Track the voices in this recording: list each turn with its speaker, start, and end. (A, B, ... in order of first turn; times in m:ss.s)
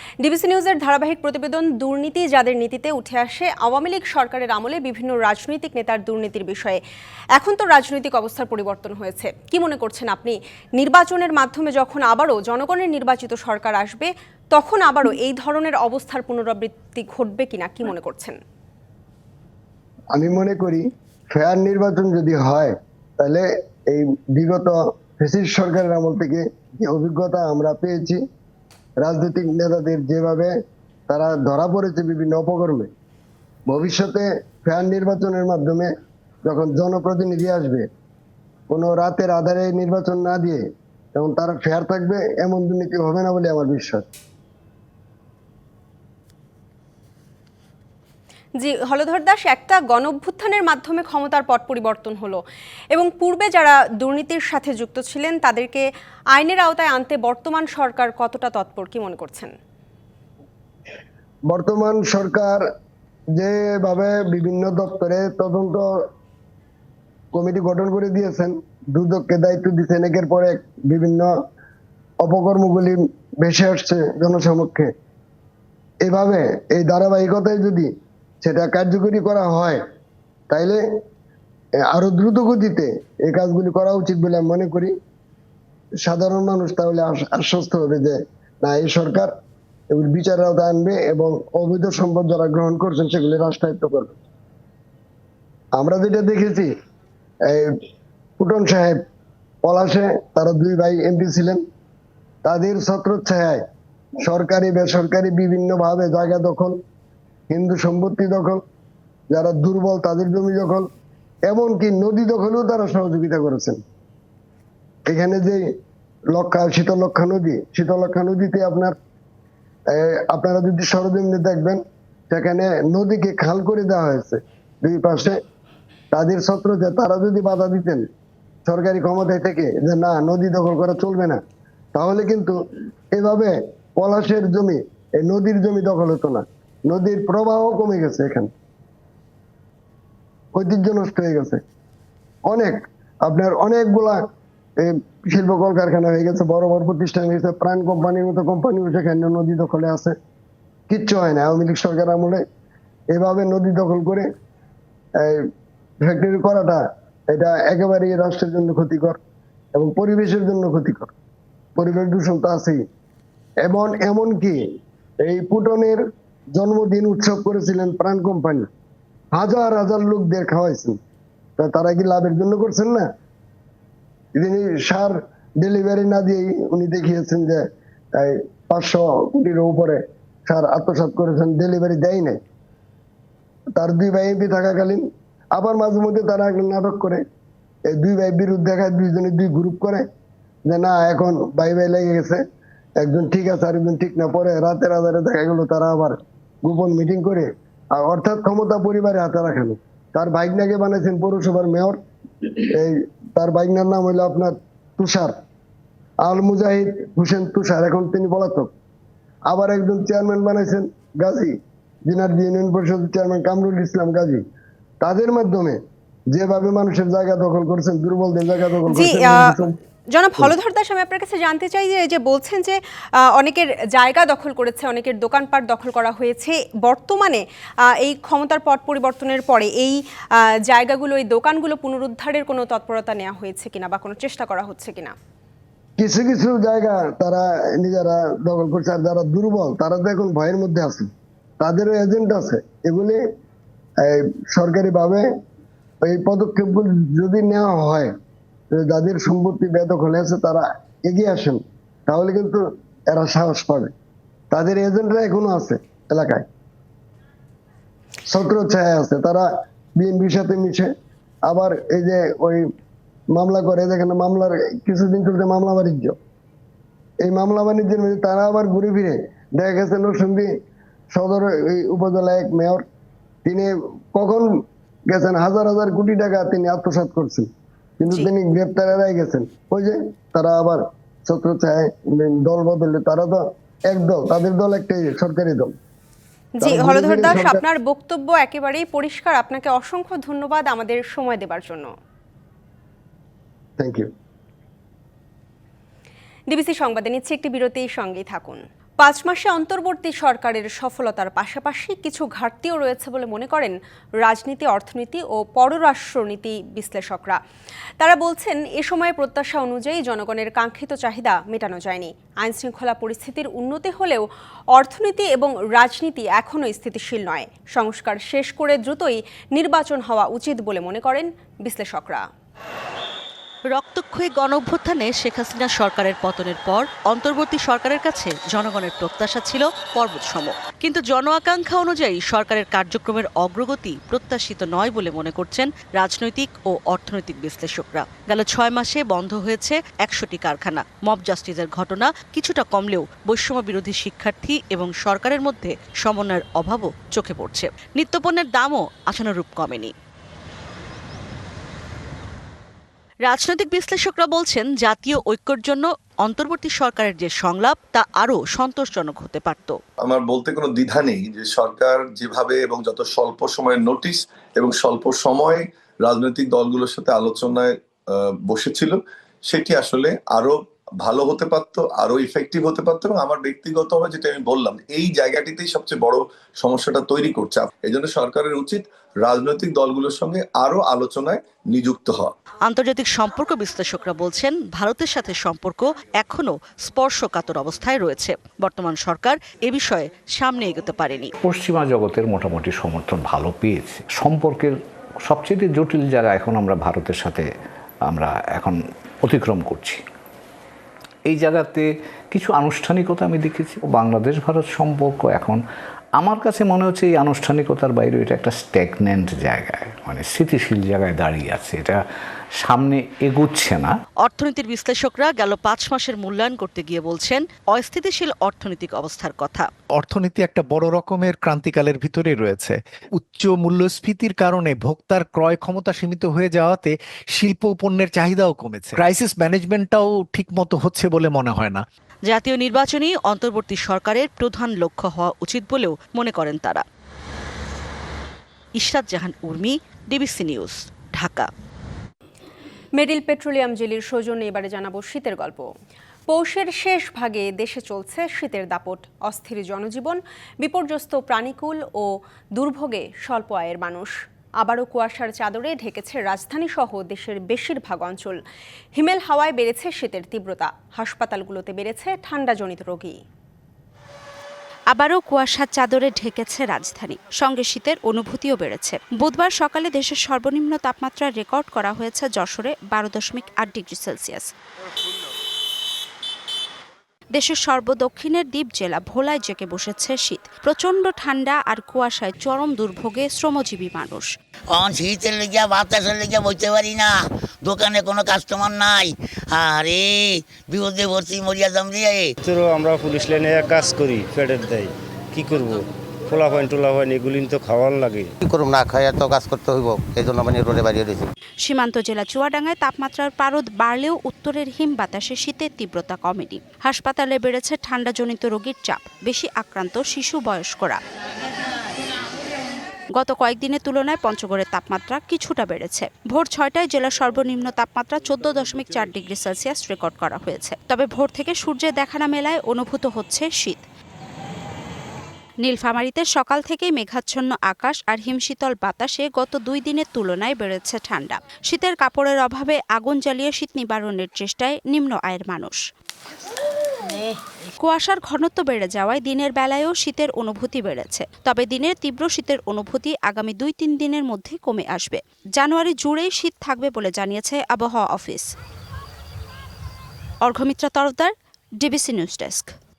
0:00.2-0:06.8 A
0:07.4-0:18.4 A
0:20.1-0:28.2 B
0:29.0-0:30.6 B
0:31.1-0:32.9 B
0:33.7-0:35.9 B
0:36.5-0:37.9 B
0:38.7-0:40.6 B
0:41.2-0:44.0 B
0:48.6-0:52.4 A
0:52.9-0:59.5 A
1:01.5-1:02.6 B
1:03.4-1:05.8 B
1:07.3-1:11.3 B
1:12.2-1:14.9 B
1:16.0-1:17.9 B
1:18.4-1:19.8 B
1:20.5-1:20.8 B
1:21.9-1:25.0 B
1:26.0-1:29.3 B
1:29.9-1:34.2 B
1:35.8-1:36.7 B
1:37.5-1:37.8 B
1:38.4-1:39.0 B
1:39.6-1:41.6 B
1:42.4-1:43.6 B
1:44.2-1:46.8 B
1:47.5-1:48.6 B
1:49.3-1:50.9 B
1:51.5-1:53.8 B
1:55.1-1:55.7 B
1:56.3-1:59.0 B
1:59.9-2:05.4 B
2:06.1-2:08.0 B
2:08.7-2:11.4 B
2:12.0-2:12.6 B
2:13.2-2:18.5 B
2:20.6-2:21.6 B
2:22.5-2:24.2 B
2:24.8-2:30.2 B
2:30.9-2:32.4 B
2:33.1-2:34.3 B
2:35.2-2:35.5 B
2:36.0-2:39.2 B
2:39.8-2:41.1 B
2:41.8-2:42.8 B
2:43.6-2:44.6 B
2:45.2-2:46.0 B
2:46.6-2:48.7 B
2:49.4-2:51.0 B
2:51.6-2:53.1 B
2:54.4-3:02.4 B
3:03.8-3:07.2 B
3:07.9-3:10.0 B
3:10.7-3:12.4 B
3:13.0-3:25.4 B
3:26.2-3:28.7 B
3:29.5-3:34.4 B
3:35.0-3:35.8 B
3:36.3-3:39.7 B
3:38.9-3:39.5 A
3:40.1-3:50.0 A
3:50.7-3:55.2 A
3:56.0-4:01.1 B
4:01.6-4:03.2 B
4:04.0-4:05.3 B
4:06.0-4:08.1 B
4:08.7-4:13.9 B
4:14.5-4:16.5 B
4:18.3-4:20.9 B
4:21.5-4:22.7 B
4:23.3-4:26.2 B
4:27.2-4:30.5 B
4:31.1-4:32.8 B
4:33.5-4:34.5 B
4:35.1-4:37.5 B
4:38.0-4:45.7 B
4:46.6-4:51.9 A
4:46.6-4:47.6 B
4:53.8-4:54.1 B
4:56.5-5:07.4 A
5:08.0-5:22.3 A
5:23.7-5:49.9 C
5:53.2-5:59.8 C
6:00.0-6:07.8 D
6:08.4-6:22.3 D
6:22.7-6:31.3 C
6:31.4-6:37.5 E
6:38.1-6:40.0 E
6:41.3-6:45.6 E
6:46.2-6:52.0 E
6:52.6-6:53.9 E
6:54.2-6:59.7 C
7:00.0-7:11.8 F
7:12.3-7:16.8 C
7:18.8-7:21.5 C
7:23.0-7:25.7 A
7:26.3-7:38.4 A
7:39.0-7:43.2 A
7:44.9-7:54.5 G
7:57.3-8:04.3 G
8:04.7-8:07.1 H
8:07.6-8:12.3 H
8:12.4-8:18.3 I
8:18.4-8:21.3 J
8:21.6-8:31.0 G
8:33.2-8:43.8 G
8:45.6-8:55.8 G
8:57.8-9:08.5 G
9:10.4-9:12.7 G